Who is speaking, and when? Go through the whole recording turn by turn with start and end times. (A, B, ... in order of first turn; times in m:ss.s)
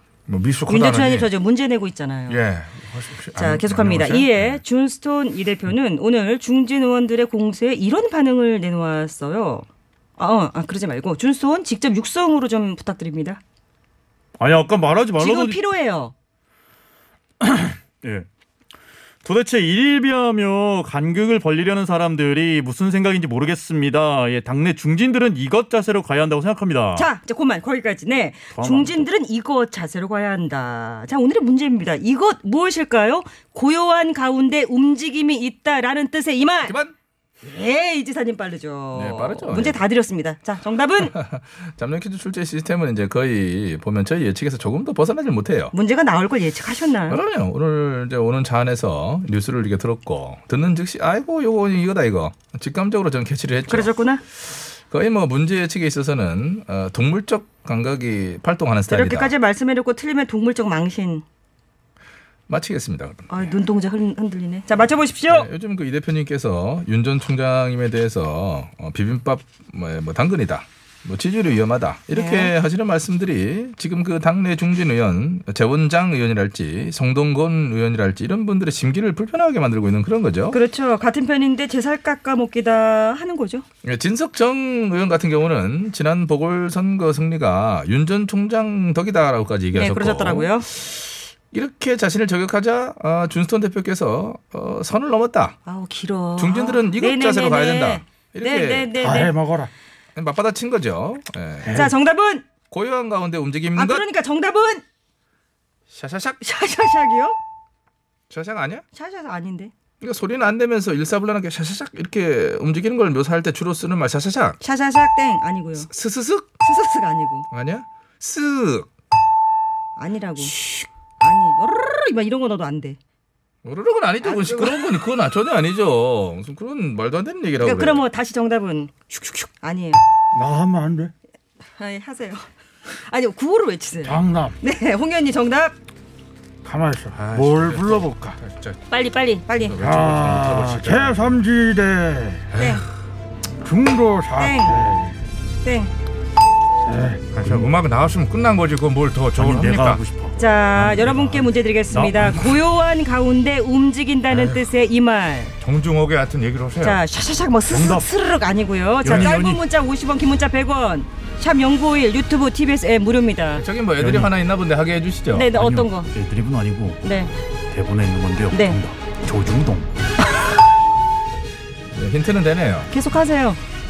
0:00.3-0:01.3 A
0:00.7-0:02.4 B
0:02.3-0:04.6 A
0:03.4-0:09.6 B
0:10.2-0:13.4 B
0:14.4-0:15.6 C
0:15.2-0:16.1 B
0:17.4-0:18.3 C
0:19.2-0:27.1 C
0:27.0-0:36.7 B
0:28.5-0:29.0 C
0:36.6-0:36.9 D
0:37.4-0:41.1 B
0:38.9-0:39.8 D
0:41.0-0:45.7 D
0:45.7-0:47.2 B
0:47.1-0:53.9 D
0:53.7-0:54.2 B
0:54.9-0:59.3 D
0:58.9-1:01.2 B
1:02.5-1:03.3 D
1:03.3-1:05.5 B
1:05.3-1:20.6 D
1:12.1-1:12.5 B
1:20.5-1:23.6 B
1:23.8-1:35.6 D
1:29.7-1:30.7 B
1:35.6-1:39.3 B
1:36.4-1:38.9 D
1:39.0-1:39.7 E
1:40.2-1:41.8 D
1:41.6-1:41.9 E
1:41.7-1:42.4 B
1:42.7-1:44.0 D
1:43.7-1:44.8 B
1:45.9-1:46.4 D
1:46.4-1:47.4 B
1:48.3-1:48.8 D
1:48.9-1:49.7 B
1:50.0-1:54.6 D
1:54.6-1:55.9 B
1:55.8-1:56.5 D
1:56.6-1:57.5 B
1:57.5-1:58.9 D
2:00.0-2:00.6 B
2:01.2-2:03.0 B
2:03.6-2:08.0 D
2:04.2-2:05.0 B
2:07.6-2:08.9 B
2:09.1-2:09.5 C
2:09.6-2:10.0 B
2:10.3-2:11.1 E
2:11.8-2:15.7 B
2:14.0-2:14.6 E
2:16.6-2:18.4 E
2:17.2-2:18.0 D
2:17.6-2:18.8 A
2:18.9-2:19.8 B
2:19.5-2:21.2 D
2:19.8-2:22.5 E
2:22.5-2:22.8 B
2:23.6-2:25.2 E
2:24.3-2:24.9 B
2:25.6-2:25.9 B
2:26.8-2:27.3 E
2:27.3-2:30.0 A
2:29.3-2:32.6 C
2:30.4-2:35.5 B
2:34.3-2:34.7 A
2:35.6-2:37.0 A
2:36.8-2:43.6 B
2:37.7-2:38.1 C
2:39.0-2:39.6 C
2:43.5-2:45.5 D
2:44.0-2:44.3 C
2:45.3-2:46.1 B
2:45.5-2:47.0 C
2:47.0-2:47.3 B
2:47.7-2:49.9 C
2:48.5-2:48.8 B
2:51.9-2:52.9 D
2:52.9-2:53.6 B